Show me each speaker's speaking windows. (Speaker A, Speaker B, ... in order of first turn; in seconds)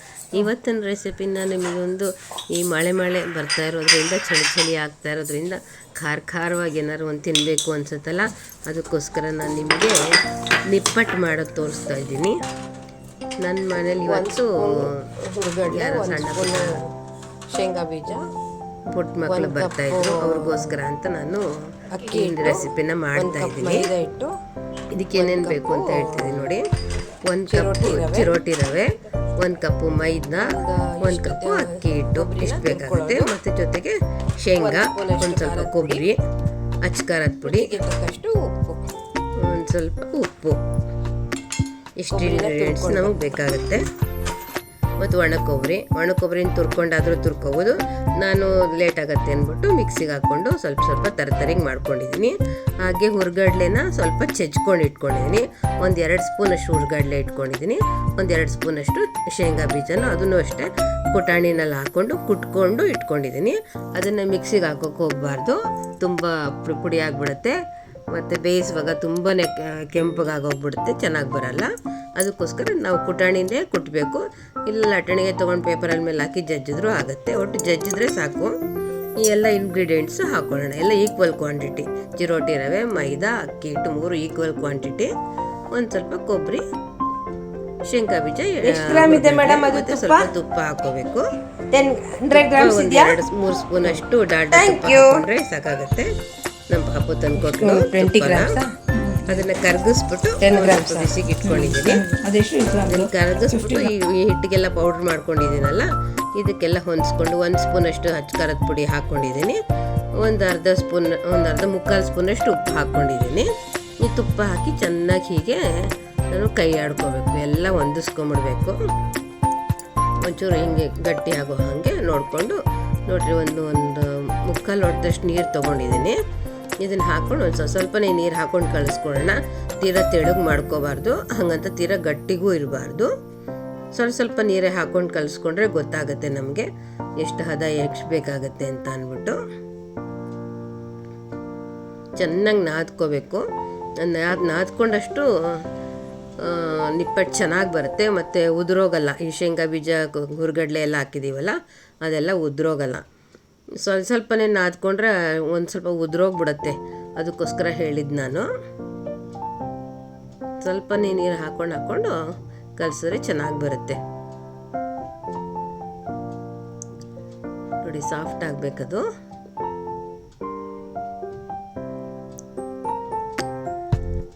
Speaker A: 0.3-10.1, 10.7-12.4, 13.4-14.9, 15.7-16.8, 18.9-23.9, 24.9-26.6, 27.2-36.2, 36.8-37.7, 39.4-40.6, 42.0-43.9, 45.0-67.6, 68.1-78.5, 79.2-85.1, 85.7-86.6, 87.8-91.3, 92.3-96.1, 96.7-98.6, 99.2-102.1, 102.8-109.6, 110.2-118.8, 120.2-126.2, 126.8-133.1, 133.9-136.7, 137.2-139.4, 142.2-143.4, 144.0-145.6, 146.4-153.0, 153.8-158.5, 160.6-162.2, 162.8-164.0, 167.8-169.0
Speaker B: 14.1-16.9, 17.5-18.3, 19.3-20.8, 21.9-24.3, 25.1-26.3, 27.5-28.4, 30.4-33.3, 34.5-36.0, 37.4-38.8, 42.1-43.1, 88.6-90.3, 91.7-93.2, 94.5-95.2, 97.4-99.5, 100.4-103.9